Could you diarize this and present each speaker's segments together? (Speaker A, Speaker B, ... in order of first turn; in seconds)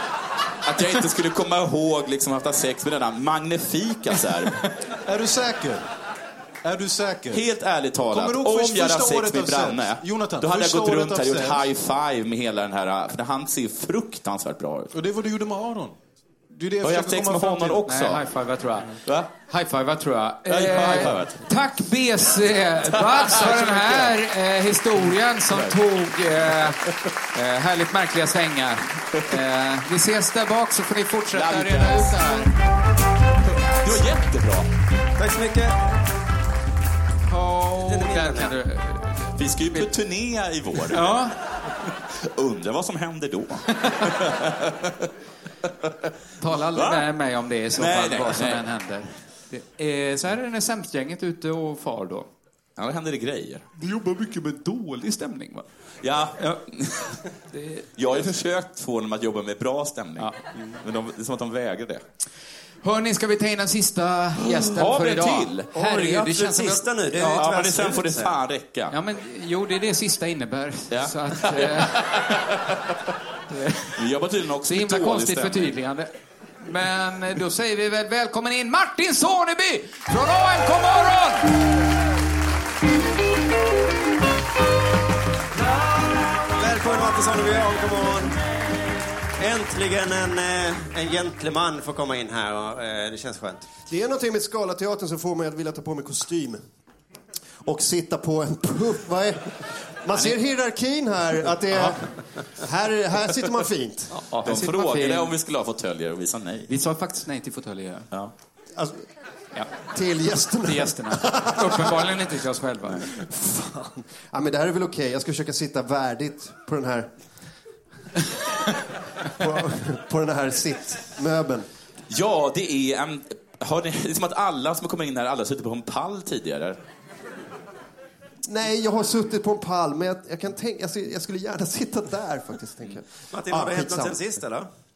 Speaker A: 0.7-4.6, 7.3-14.9, 16.8-18.3, 19.1-19.3, 20.5-21.4, 22.9-24.0, 31.3-32.2, 33.6-34.7, 39.4-41.2, 42.1-45.1, 46.7-47.1, 47.7-48.6, 52.8-53.7, 56.0-57.1, 58.0-62.0, 64.5-65.7, 67.2-69.0, 70.9-72.4, 74.0-75.7, 104.4-106.7, 122.1-126.8
Speaker B: 5.1-5.8, 6.6-7.5, 8.1-11.6, 14.9-16.0, 16.5-17.9
Speaker C: 17.9-32.5, 37.2-39.2, 40.9-41.3, 46.4-52.3, 53.8-55.6, 57.5-57.9, 62.8-67.5, 68.9-72.1, 73.5-74.0, 74.6-76.1, 76.6-81.5, 104.3-105.3, 106.7-108.1, 110.7-113.1
Speaker D: 35.2-35.8, 37.8-38.5, 65.8-68.3, 86.5-88.4, 89.4-93.7, 133.3-134.7
Speaker E: 93.9-96.6, 97.6-104.2, 108.8-109.0, 109.9-112.1, 113.1-117.1, 119.4-121.7, 128.5-134.2